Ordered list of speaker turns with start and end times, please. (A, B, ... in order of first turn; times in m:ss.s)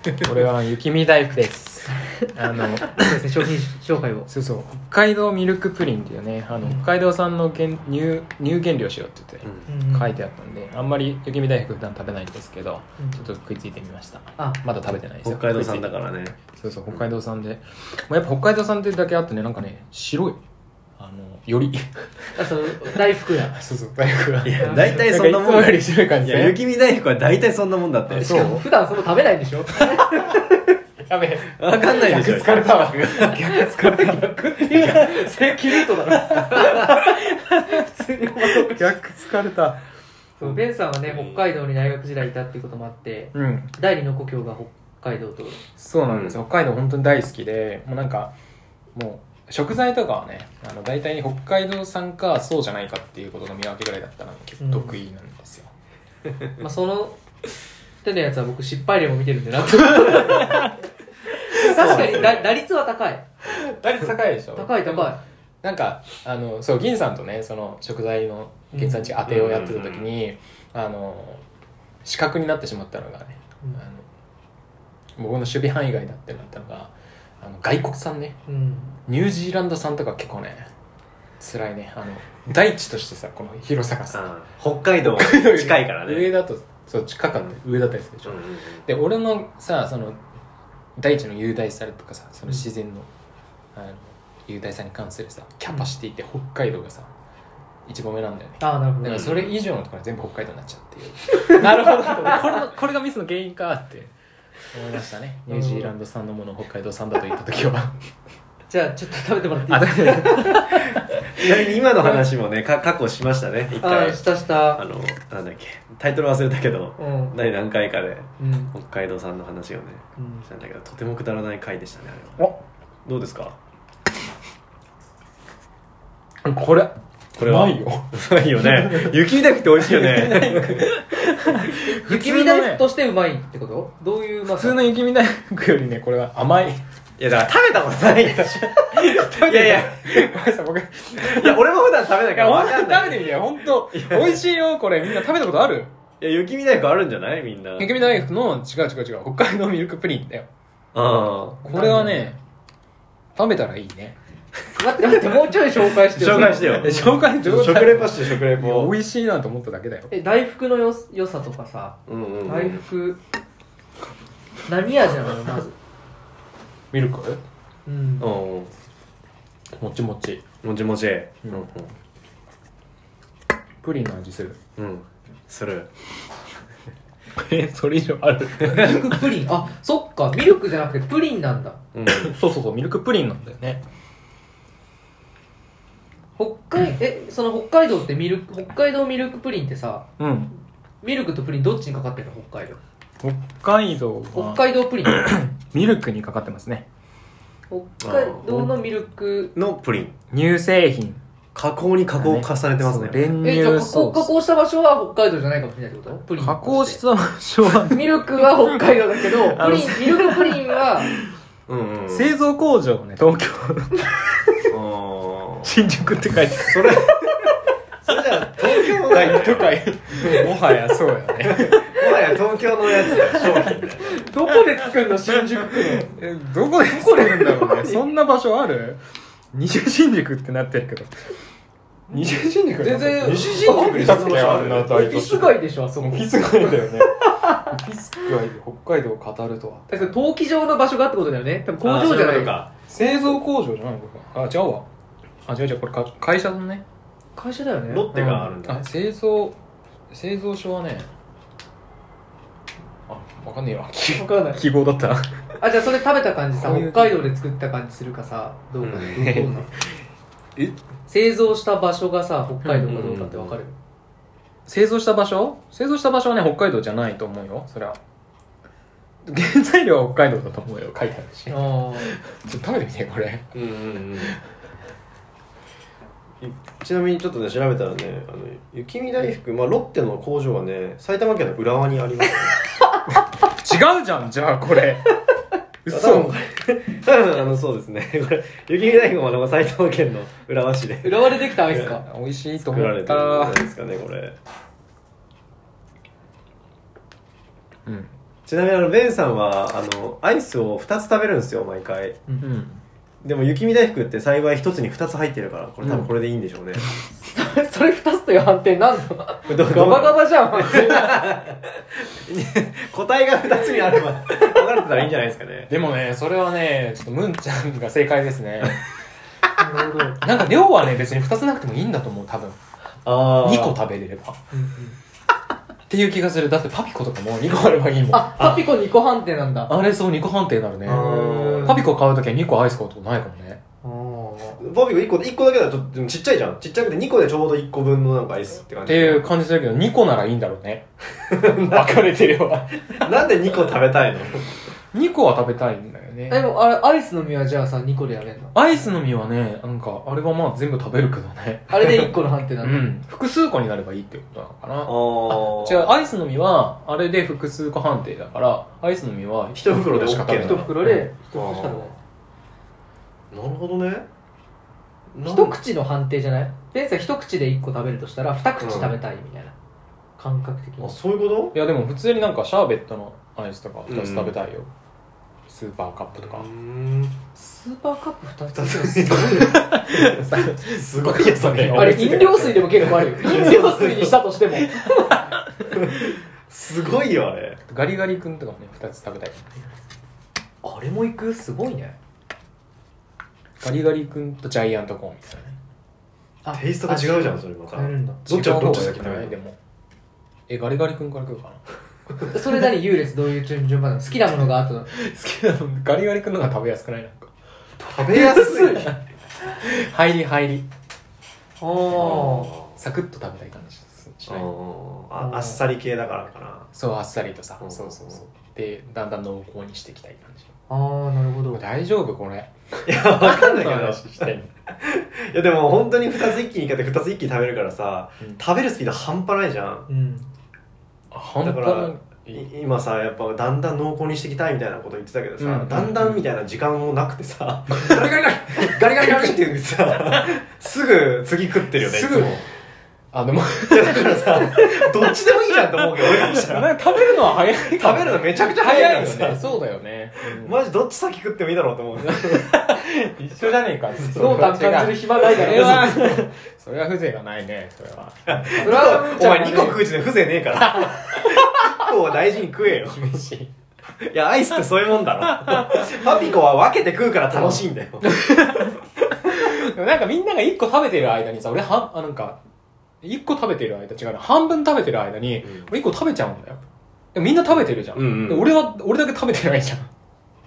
0:00.2-0:03.2 A
0:02.9-0:04.3 B
0:04.3-0:15.9 A
0:09.4-0:09.7 C
0:09.7-0:10.2 B
0:15.2-0:16.4 C
0:16.5-0:20.4 A
0:21.0-0:26.6 A
0:22.4-0:23.6 B
0:24.4-0:28.6 C
0:24.6-0:25.0 B
0:28.1-0:28.7 A
0:28.1-0:30.6 B
0:29.9-0:30.4 A
0:31.0-0:39.8 A
0:31.5-0:33.5 C
0:33.3-0:39.0 B
0:40.4-0:45.6 B
0:40.4-0:41.4 C
0:43.3-0:43.8 A
0:45.8-0:48.3 A
0:46.1-0:46.4 C
0:48.9-0:55.7 A
0:54.6-0:55.0 B
0:56.6-0:57.2 B
0:58.0-1:00.7 B
1:01.4-1:03.3 B
1:01.6-1:02.3 A
1:01.6-1:02.5 C
1:03.4-1:11.4 A
1:04.6-1:05.2 B
1:08.7-1:09.2 B
1:09.3-1:10.1 C
1:12.0-1:14.0 A
1:15.2-1:18.4 A
1:18.5-1:19.0 B
1:19.1-1:20.7 A
1:21.4-1:24.3 A
1:24.1-1:26.3 C
1:25.1-1:30.2 A
1:28.3-1:28.8 C
1:31.0-1:33.1 A
1:33.7-1:37.1 A
1:37.9-1:44.1 A
1:38.6-1:39.4 B
1:39.0-1:39.6 C
1:41.5-1:42.5 B
1:44.7-1:48.0 A
1:45.5-1:45.9 B
1:48.7-1:50.7 B
1:49.7-1:52.2 A
1:51.3-2:02.5 C
1:53.8-1:54.8 B
1:57.0-1:57.4 B
1:58.4-1:58.7 B
2:00.2-2:00.5 B
2:03.1-2:03.6 C
2:06.4-2:09.2 A
2:07.4-2:10.9 C
2:09.8-2:12.9 A
2:11.7-2:14.8 B
2:14.5-2:16.8 A
2:17.2-2:20.4 C
2:18.1-2:21.6 A
2:21.2-2:24.4 C
2:22.3-2:25.9 A
2:26.2-2:27.9 C
2:27.8-2:30.5 A
2:30.9-2:31.8 C
2:31.6-2:32.3 B
2:31.6-2:32.4 A
2:33.4-2:34.2 A
2:34.8-2:37.0 B
2:36.0-2:38.9 C
2:36.7-2:40.1 A
2:40.1-2:43.2 B
2:42.1-2:42.8 C
2:44.7-2:45.8 B
2:46.9-2:47.4 A
2:47.9-2:48.3 B
2:48.2-2:48.7 C
2:49.8-2:50.4 A
2:50.6-2:51.9 C
2:53.8-2:54.6 A
2:54.8-2:55.9 C
2:57.4-2:59.4 A
2:58.6-3:01.8 B
3:01.9-3:02.3 C
3:02.1-3:03.8 A
3:06.4-3:10.1 B
3:10.2-3:10.5 A
3:11.0-3:12.8 B
3:13.2-3:16.9 A
3:14.3-3:15.3 B
3:17.7-3:19.5 B
3:18.0-3:18.8 C
3:19.5-3:20.1 C
3:20.3-3:21.2 A
3:21.6-3:23.4 C
3:22.2-3:24.3 A
3:23.4-3:27.0 B
3:26.4-3:31.3 A
3:27.9-3:31.1 B
3:31.7-3:32.3 C
3:32.1-3:34.4 A
3:34.7-3:35.7 C
3:35.6-3:37.5 A
3:36.7-3:37.1 C
3:38.0-3:40.5 C
3:38.6-3:42.0 A
3:41.4-3:44.2 C
3:43.0-3:43.7 A
3:44.0-3:46.2 B
3:45.7-3:49.0 A
3:46.9-3:48.0 B
3:49.5-3:51.1 A
3:52.1-4:00.1 A
3:52.8-3:56.9 B
3:53.2-3:55.0 C
3:59.9-4:02.6 B
4:01.8-4:02.7 C
4:02.9-4:04.9 A
4:05.5-4:06.8 A
4:07.4-4:08.5 B
4:07.9-4:08.9 C
4:08.2-4:09.6 A
4:10.1-4:11.1 A
4:13.1-4:15.3 A
4:14.1-4:14.6 B
4:15.6-4:19.7 B
4:16.6-4:17.3 A
4:18.8-4:19.3 C
4:19.2-4:19.7 A
4:21.1-4:23.8 B
4:22.6-4:22.9 A
4:22.9-4:23.6 C
4:24.7-4:28.0 A
4:29.3-4:33.5 A
4:31.5-4:32.1 B
4:33.5-4:34.4 C
4:36.4-4:42.6 C
4:43.5-4:45.2 A
4:45.9-4:46.3 A
4:45.9-4:52.0 C
4:51.0-4:52.1 B
4:51.8-4:53.6 A
4:52.7-4:54.4 C
4:57.9-4:58.1 A
4:58.5-5:02.2 C
5:02.4-5:02.8 A
5:03.2-5:06.8 C
5:07.1-5:11.3 B
5:09.5-5:15.7 C
5:15.7-5:18.8 A
5:19.6-5:20.2 B
5:20.2-5:22.6 A
5:23.0-5:23.8 C
5:23.4-5:24.4 A
5:24.5-5:25.0 B
5:25.9-5:28.6 A
5:28.1-5:29.7 B
5:29.7-5:33.6 A
5:30.8-5:31.8 C
5:30.9-5:31.8 B
5:33.8-5:34.6 B
5:34.6-5:39.2 C
5:38.8-5:43.1 A
5:41.3-5:42.0 C
5:43.0-5:44.5 C
5:44.9-5:46.5 A
5:46.3-5:48.6 B
5:48.6-6:01.1 A
5:51.7-5:52.9 B
5:54.8-5:55.9 C
5:59.6-6:00.7 C
6:00.3-6:02.0 B
6:01.3-6:02.0 C
6:03.3-6:04.1 C
6:05.1-6:05.6 C
6:05.2-6:09.5 B
6:08.6-6:09.0 C
6:10.2-6:11.0 B
6:10.8-6:11.6 C
6:11.5-6:14.7 A
6:13.9-6:14.4 C
6:15.5-6:16.5 A
6:16.2-6:17.2 C
6:17.4-6:19.6 B
6:18.5-6:24.3 C
6:19.4-6:23.5 A
6:21.7-6:25.2 B
6:24.7-6:25.9 A
6:25.7-6:27.6 C
6:27.7-6:29.8 A
6:30.6-6:32.0 B
6:33.6-6:35.6 A
6:36.4-6:38.3 B
6:36.5-6:39.4 C
6:38.3-6:39.6 A
6:40.5-6:41.6 A
6:42.3-6:44.9 B
6:44.9-6:47.3 A
6:47.8-6:49.0 C
6:48.0-6:49.0 B
6:49.5-6:50.7 A
6:51.6-6:52.5 B
6:51.9-6:52.8 C
6:52.8-6:54.5 A
6:54.3-6:56.7 C
6:55.2-6:55.6 B
6:56.7-7:00.5 A
6:57.6-6:58.2 C
7:00.7-7:01.6 B
7:01.5-7:04.5 A
7:02.9-7:09.9 C
7:09.9-7:10.3 B
7:11.1-7:12.4 A
7:11.4-7:22.4 C
7:15.4-7:16.2 A
7:17.8-7:19.4 A
7:21.8-7:22.5 A
7:23.1-7:30.6 A
7:23.7-7:26.7 C
7:27.7-7:29.5 C
7:30.2-7:32.5 C
7:32.0-7:39.1 A
7:34.0-7:36.2 B
7:35.4-7:35.9 C
7:38.3-7:43.2 C
7:38.6-7:39.9 B
7:40.6-7:41.9 A
7:42.7-7:43.5 A
7:44.1-7:48.2 C
7:45.2-7:46.3 A
7:47.4-7:52.4 A
7:53.0-7:56.6 A
7:55.4-7:55.7 C
7:57.2-7:59.9 A
7:57.5-7:58.5 C